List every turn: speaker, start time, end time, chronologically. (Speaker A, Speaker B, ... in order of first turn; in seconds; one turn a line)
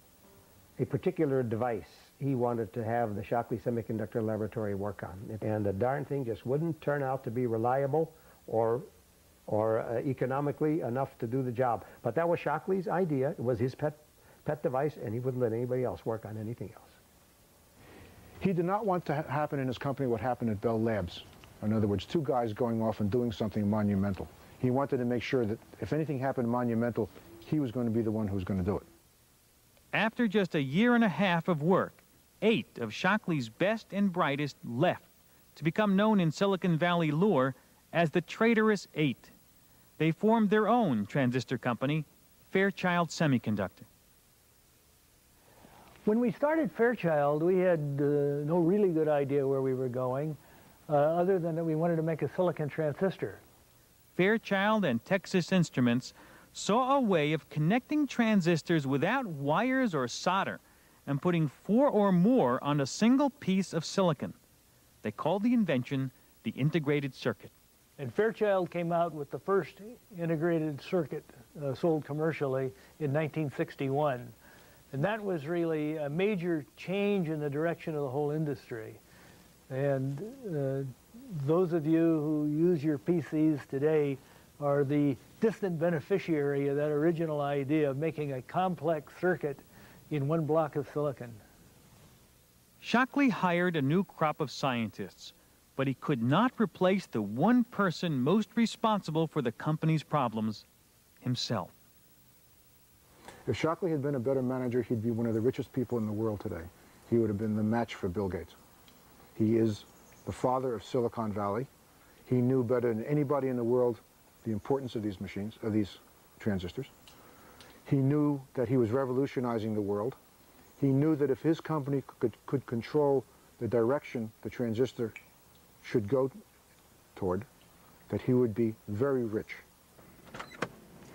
Speaker A: 0.8-8.9
Speaker A: 9.5-16.9
Speaker B: 18.4-28.9
Speaker C: 29.9-39.3
Speaker C: 40.0-43.9
Speaker D: 46.0-53.4
Speaker C: 54.1-64.4
Speaker C: 65.0-67.5
Speaker D: 68.0-74.3
Speaker D: 74.9-79.0
Speaker D: 79.7-91.4
Speaker C: 92.8-100.7
Speaker C: 101.2-101.7
Speaker B: 103.5-108.6
Speaker B: 109.3-111.7
Speaker B: 112.2-116.9
Speaker B: 117.8-120.2
Speaker B: 120.8-125.2
Speaker B: 125.8-126.4
Speaker B: 127.1-127.5
Speaker B: 128.1-129.6